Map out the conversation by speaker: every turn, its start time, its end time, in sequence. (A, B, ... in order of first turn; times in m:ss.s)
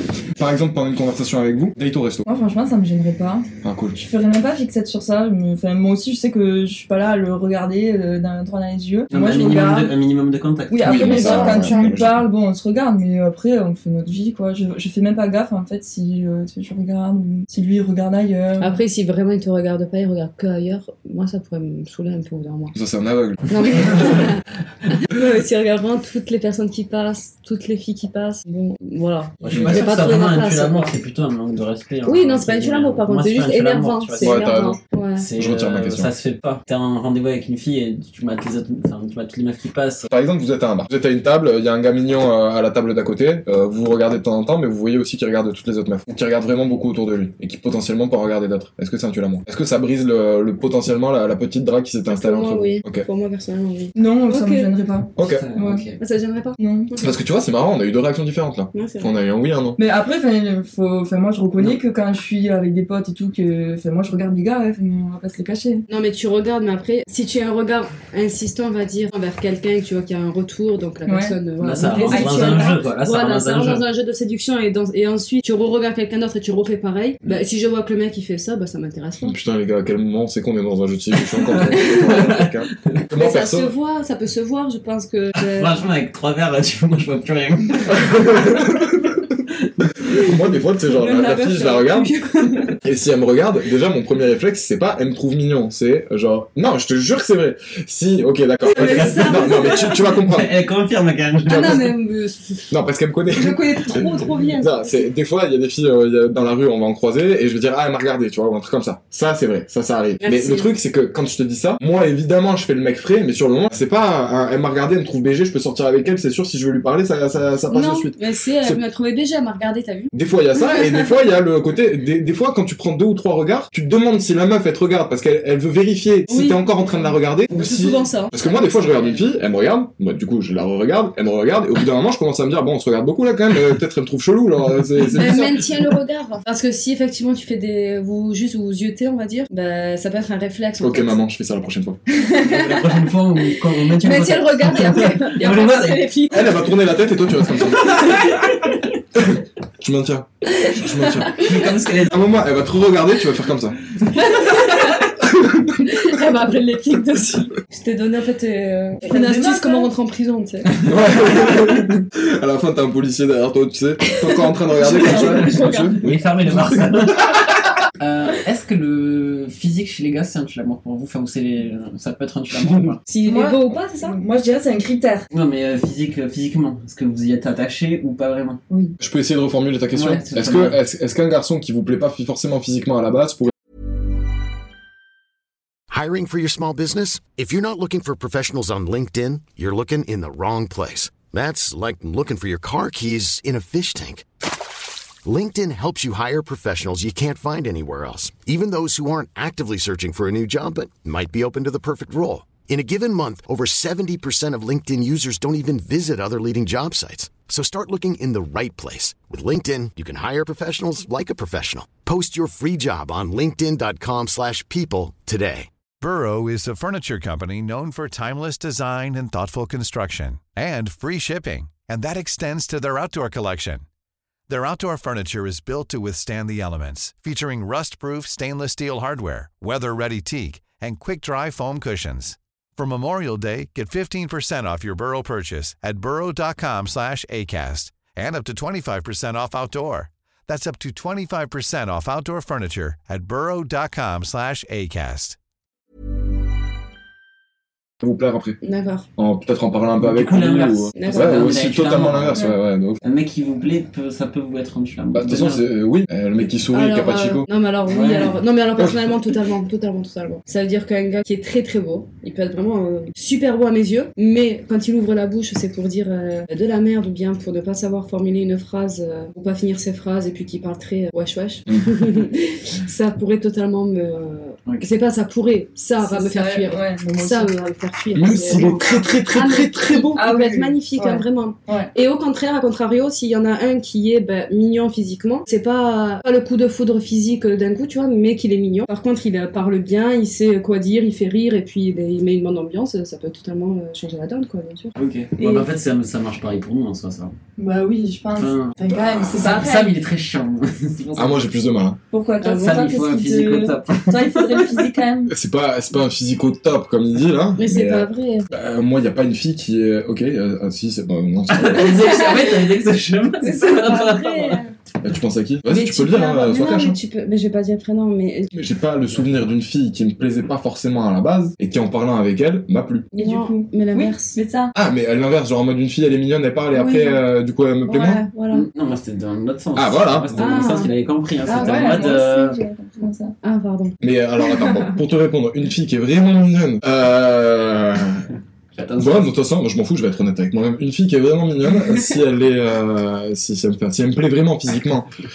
0:00.3-0:02.3 A
0:02.3-0:03.5 B
0:03.6-0:04.1 A
0:04.0-0:09.9 B
0:09.1-0:11.5 C
0:10.7-0:18.8 B
0:10.8-0:12.3 A
0:11.0-0:11.9 D
0:18.6-0:22.8 D
0:22.7-0:24.3 A
0:23.5-0:31.0 D
0:29.4-0:34.6 C
0:29.5-0:29.9 A
0:32.1-0:35.3 D
0:34.2-0:34.8 A
0:35.2-0:40.1 C
0:35.4-0:36.1 A
0:40.1-0:53.1 A
0:52.1-0:54.8 D
0:54.0-0:55.8 B
0:55.2-0:55.5 A
0:55.2-0:56.0 C
0:56.0-0:57.2 D
0:56.6-0:56.9 B
0:57.0-0:59.8 A
0:58.7-0:59.1 D
0:59.8-1:05.9 B
1:05.9-1:19.4 D
1:11.1-1:12.8 B
1:11.6-1:13.9 C
1:19.2-1:23.7 A
1:21.3-1:23.0 C
1:21.8-1:22.1 D
1:23.2-1:25.7 D
1:25.4-1:28.2 C
1:27.9-1:29.2 A
1:30.1-1:32.1 A
1:30.9-1:32.8 D
1:32.8-1:40.5 A
1:38.7-1:41.9 C
1:38.8-1:39.7 D
1:38.8-1:39.8 B
1:41.5-1:42.7 D
1:42.7-1:58.8 A
1:43.3-1:45.1 D
1:50.2-1:50.7 D
1:57.7-2:00.1 D
2:00.1-2:15.6 A
2:06.3-2:08.4 D
2:15.2-2:21.2 D
2:20.8-2:22.0 A
2:22.2-2:22.9 D
2:22.4-2:26.1 C
2:23.5-2:26.5 D
2:26.3-2:28.2 A
2:27.6-2:28.6 C
2:29.2-2:33.8 A
2:30.6-2:31.4 D
2:31.3-2:32.2 C
2:34.1-2:35.1 D
2:35.2-2:36.0 A
2:35.8-2:40.7 D
2:39.1-2:39.8 C
2:39.3-2:39.6 B
2:40.7-2:41.0 C
2:40.8-2:47.6 A
2:44.3-2:46.0 D
2:44.9-2:47.3 C
2:48.0-2:53.0 C
2:52.6-2:52.9 A
2:53.1-2:54.2 D
2:53.2-2:55.3 B
2:55.3-2:58.6 C
2:58.7-2:59.0 B
2:59.0-3:03.5 A
2:59.9-3:00.8 C
3:05.9-3:14.2 E
3:15.2-3:35.7 E
3:36.0-3:43.8 F
3:44.5-4:05.4 F
4:08.0-4:08.6 A
4:08.6-4:09.1 D
4:09.2-4:13.0 A
4:10.0-4:12.5 C
4:11.0-4:11.6 D
4:13.0-4:15.6 C
4:15.1-4:17.5 A
4:16.7-4:55.0 D
4:17.9-4:18.4 C
4:18.8-4:19.1 A
4:31.7-4:32.1 A
4:36.0-4:37.5 B
4:38.2-4:40.2 A
4:38.3-4:39.1 B
4:40.2-4:41.9 B
4:55.0-4:57.4 C
4:55.4-4:55.6 B
4:57.6-5:00.0 B
4:58.4-5:01.5 C
5:01.2-5:02.0 A
5:02.1-5:05.3 B
5:02.4-5:02.8 D
5:02.4-5:04.8 C
5:05.3-5:12.2 A
5:07.6-5:08.5 D
5:11.5-5:14.6 C
5:13.4-5:14.6 D
5:15.0-5:17.0 A
5:15.7-5:18.5 D
5:18.5-5:23.1 A
5:19.1-5:19.5 C
5:23.1-5:24.7 B
5:23.2-5:24.4 D
5:24.7-5:28.2 A
5:26.7-5:27.2 D
5:27.9-5:28.6 D
5:28.5-5:32.6 C
5:29.8-5:30.7 A
5:30.4-5:30.9 D
5:31.4-5:32.2 D
5:31.5-5:33.4 B
5:33.4-5:34.9 D
5:34.0-5:38.3 A
5:38.8-5:39.3 C
5:39.0-5:45.1 A